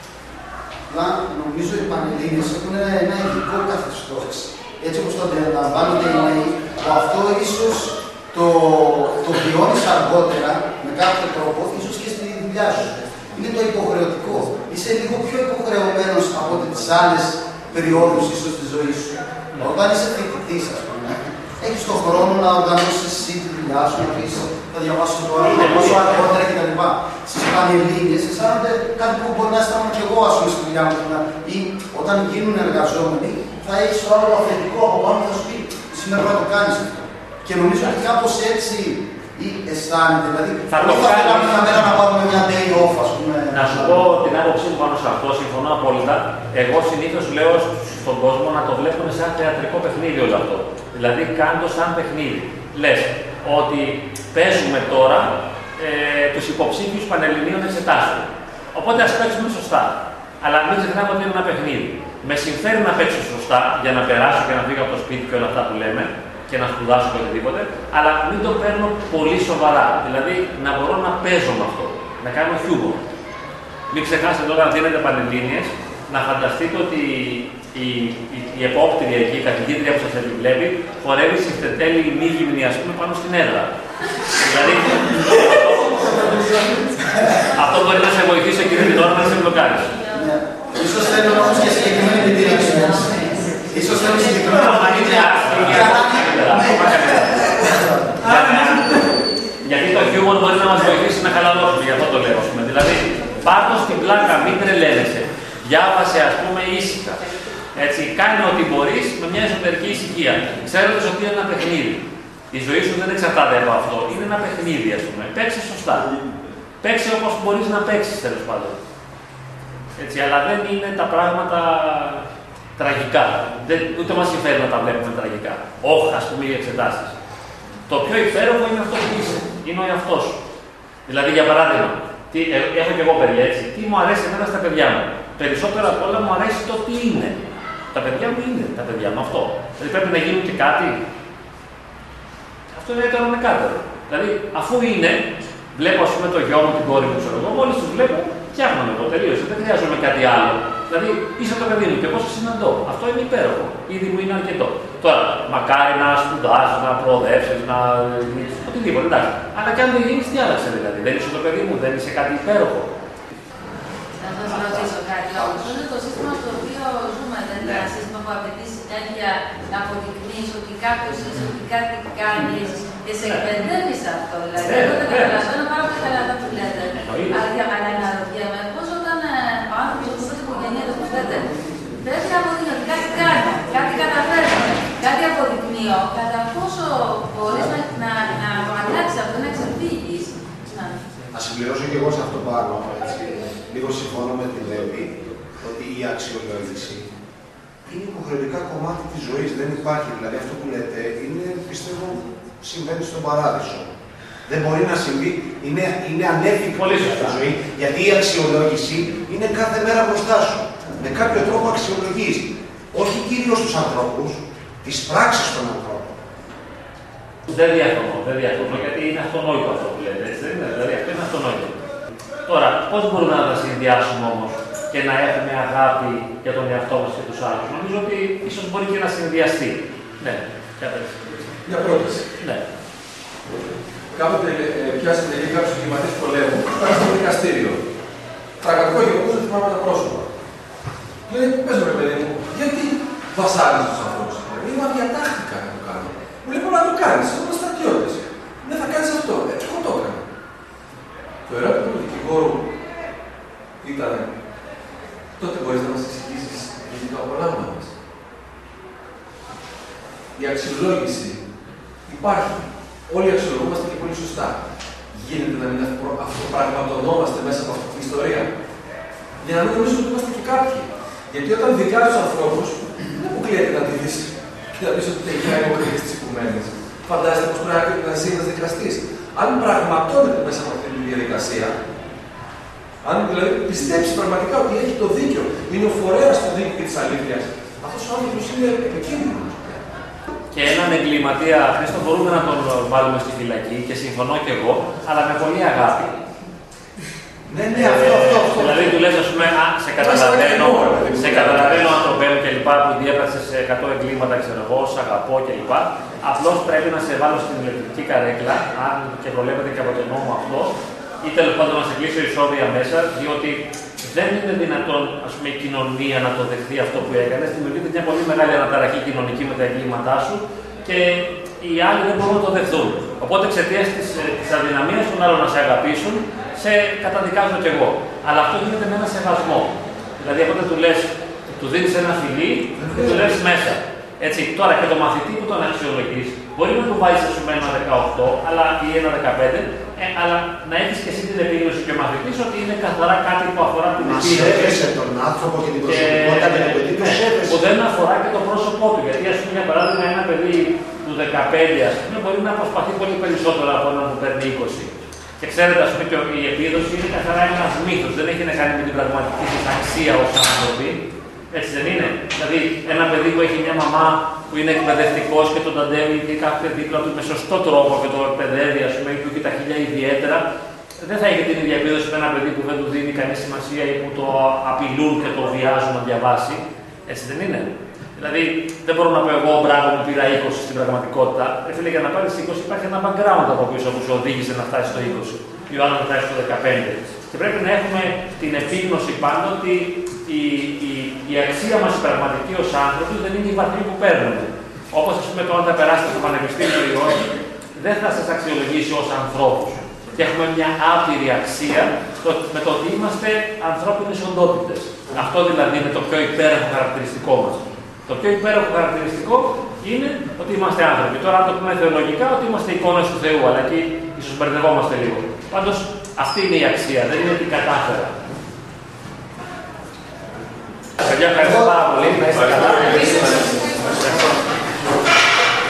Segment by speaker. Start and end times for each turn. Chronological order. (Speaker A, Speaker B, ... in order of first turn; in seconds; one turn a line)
Speaker A: 0.9-44.0
Speaker B: 25.4-26.1
Speaker B: 40.7-41.9
Speaker B: 43.5-73.0
Speaker B: 73.9-83.7
Speaker B: 84.3-86.3
Speaker A: 85.0-87.5
Speaker B: 87.5-90.0
Speaker A: 90.1-99.0
Speaker B: 94.2-97.7
Speaker B: 98.2-99.0
Speaker B: 99.6-116.2
Speaker B: 116.8-118.8
Speaker B: 120.0-127.1
Speaker B: 127.9-130.4
Speaker B: 131.1-137.4
Speaker B: 137.9-141.0
Speaker B: 142.7-162.9
Speaker C: 164.2-191.0
Speaker B: 164.5-164.8
Speaker B: 174.6-175.5
Speaker B: 176.9-177.4
Speaker D: 191.3-197.1
Speaker D: 197.9-203.9
Speaker D: 204.5-216.2
Speaker B: 206.7-207.4
Speaker B: 217.4-221.8
Speaker B: 222.4-231.6
Speaker E: 231.7-232.3
Speaker B: 232.4-232.6
Speaker E: 234.1-237.8
Speaker E: 238.6-240.3
Speaker E: 241.3-250.2
Speaker E: 251.5-252.6
Speaker E: 253.8-254.3
Speaker E: 255.4-257.9
Speaker E: 260.3-261.4
Speaker E: 262.1-264.6
Speaker E: 265.1-268.5
Speaker E: 269.4-281.8
Speaker E: 283.0-290.0
Speaker B: 290.5-296.2
Speaker D: 297.5-299.0
Speaker B: 297.7-344.9
Speaker E: 300.0-302.0
Speaker E: 332.8-333.3
Speaker D: 344.0-347.6
Speaker B: 345.9-370.4
Speaker B: 371.0-418.2
Speaker B: 421.0-424.3
Speaker E: 423.2-423.6